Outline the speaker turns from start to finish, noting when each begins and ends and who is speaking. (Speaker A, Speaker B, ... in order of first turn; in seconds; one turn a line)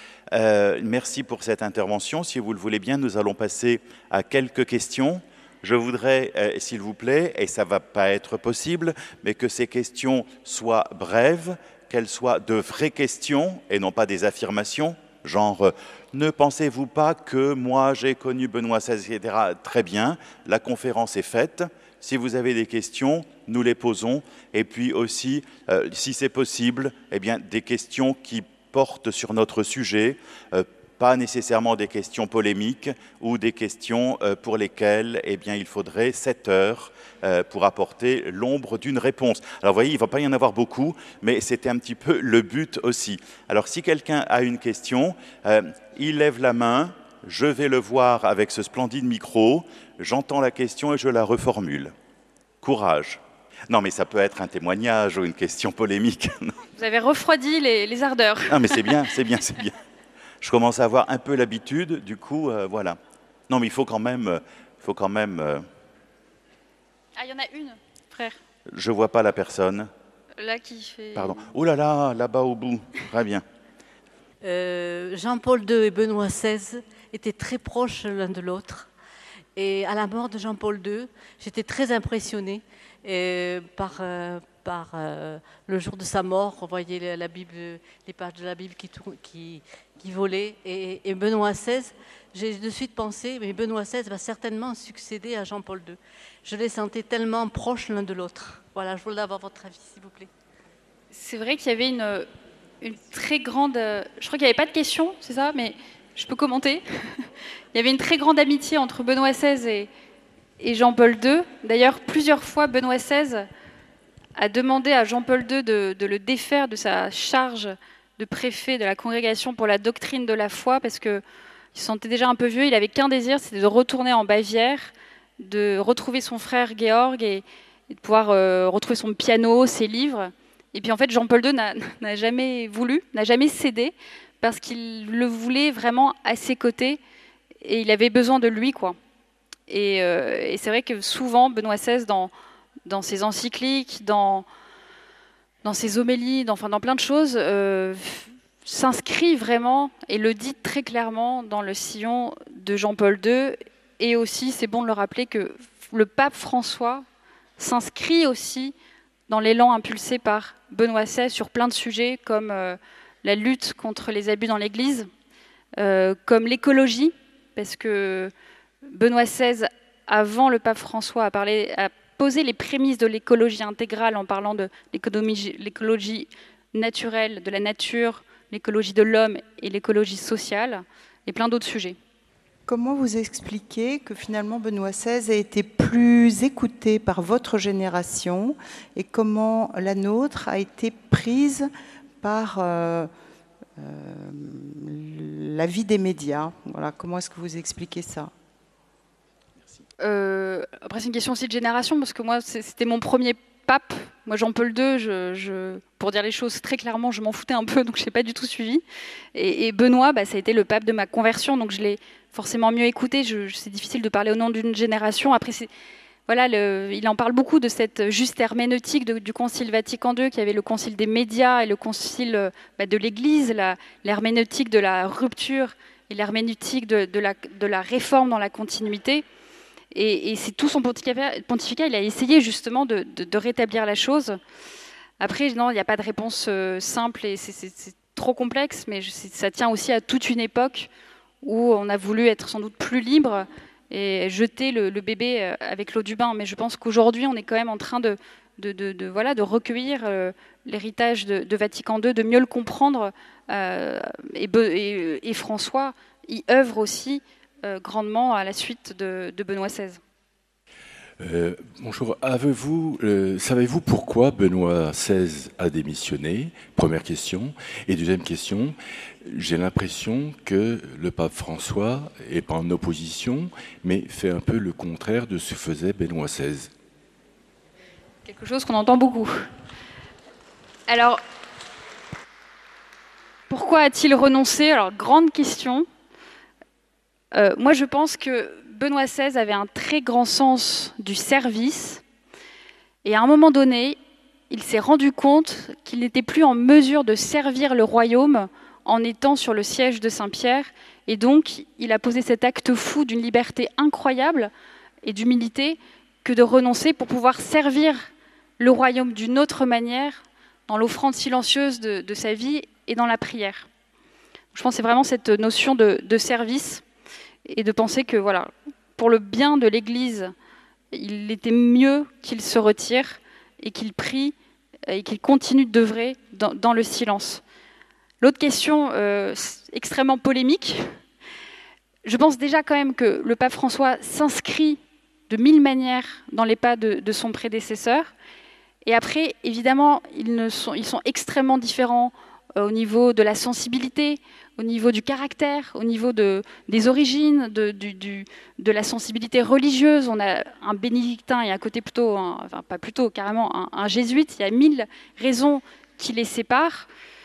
Speaker A: 0.3-51.9
Speaker A: 52.6-56.6
Speaker B: 56.8-59.0
Speaker A: 58.5-59.8
Speaker A: 60.4-63.0
Speaker A: 63.5-65.7
Speaker B: 67.2-68.4
Speaker A: 68.7-69.9
Speaker B: 70.4-71.4
Speaker A: 71.2-73.4
Speaker C: 74.4-78.9
Speaker C: 79.6-100.3
Speaker B: 101.1-102.3
Speaker B: 102.8-109.9
Speaker B: 110.6-113.5
Speaker B: 114.4-121.2
Speaker B: 121.7-137.0
Speaker B: 137.6-139.0
Speaker B: 139.7-142.3
Speaker B: 142.8-144.5
Speaker B: 145.6-157.1
Speaker B: 157.6-158.8
Speaker B: 159.3-165.1
Speaker B: 165.8-168.3
Speaker B: 168.8-182.0
Speaker D: 182.7-191.7
Speaker D: 192.2-193.1
Speaker D: 193.8-198.3
Speaker B: 200.0-208.8
Speaker B: 209.3-215.7
Speaker B: 216.3-229.2
Speaker B: 229.9-234.4
Speaker B: 235.2-240.9
Speaker B: 241.4-260.0
Speaker E: 261.2-276.7
Speaker B: 278.2-279.3
Speaker B: 280.9-281.2
Speaker B: 283.5-285.9
Speaker B: 287.3-292.0
Speaker B: 293.0-294.0
Speaker B: 294.5-304.5
Speaker B: 305.0-313.7
Speaker B: 314.5-316.8
Speaker B: 317.5-320.3
Speaker B: 320.9-324.4
Speaker B: 324.9-327.4
Speaker B: 328.2-330.9
Speaker B: 332.0-338.1
Speaker B: 338.8-356.9